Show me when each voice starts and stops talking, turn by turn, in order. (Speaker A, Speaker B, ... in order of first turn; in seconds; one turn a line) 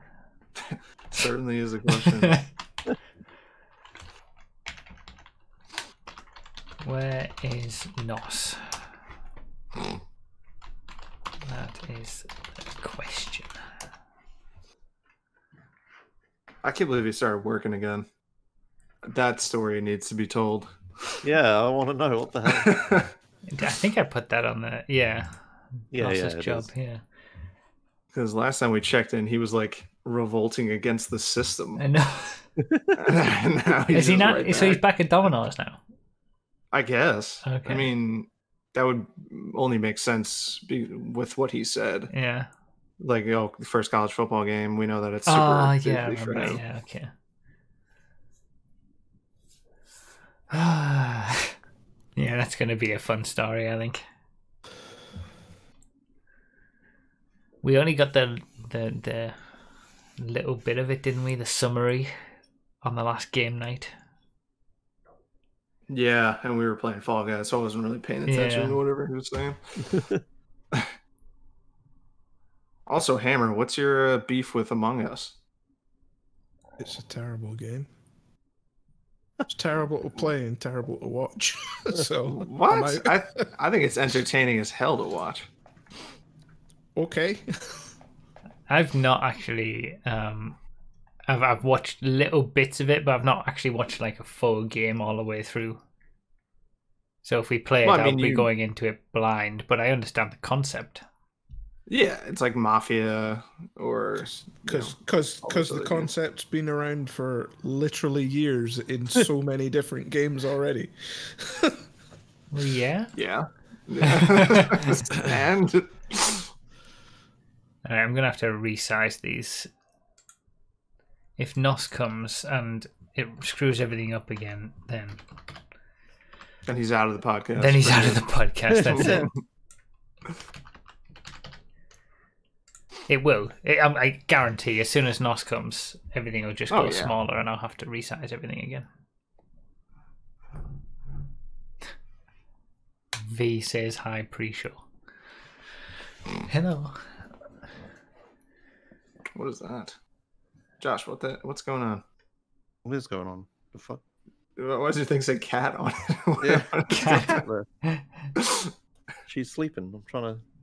Speaker A: 0.6-2.4
Speaker B: 6.8-8.8
Speaker B: 11.4-13.5
Speaker A: 16.6-18.1
Speaker A: 19.1-20.8
Speaker C: 21.2-22.8
Speaker A: 22.5-23.1
Speaker B: 23.5-27.0
Speaker C: 25.9-26.7
Speaker A: 28.1-31.8
Speaker B: 31.8-32.5
Speaker A: 32.9-34.8
Speaker B: 33.9-35.8
Speaker A: 36.7-42.1
Speaker B: 37.4-37.9
Speaker B: 42.1-42.5
Speaker A: 43.0-46.6
Speaker B: 45.2-47.1
Speaker B: 50.5-51.5
Speaker B: 52.1-54.0
Speaker B: 57.6-59.4
Speaker B: 60.2-62.1
Speaker B: 62.8-63.9
Speaker A: 65.9-69.6
Speaker B: 68.3-68.8
Speaker A: 72.9-75.3
Speaker D: 76.8-77.9
Speaker D: 79.5-83.2
Speaker A: 82.3-85.5
Speaker D: 87.0-87.9
Speaker B: 88.7-90.6
Speaker B: 91.3-95.8
Speaker B: 97.2-101.0
Speaker A: 97.8-98.5
Speaker A: 101.9-106.1
Speaker D: 104.7-111.8
Speaker B: 112.5-113.1
Speaker A: 113.1-116.5
Speaker B: 114.3-114.8
Speaker B: 117.8-119.7
Speaker B: 121.4-125.2
Speaker A: 126.7-128.3
Speaker B: 127.5-129.3
Speaker C: 128.8-129.3
Speaker A: 128.9-129.4
Speaker B: 133.1-138.9
Speaker A: 136.7-137.1
Speaker B: 143.2-144.8
Speaker B: 146.5-147.0
Speaker A: 149.3-149.9
Speaker A: 150.8-152.0
Speaker C: 152.8-154.0
Speaker A: 154.6-157.4
Speaker C: 156.4-157.7
Speaker B: 156.9-158.0
Speaker A: 158.4-158.7
Speaker C: 159.3-160.4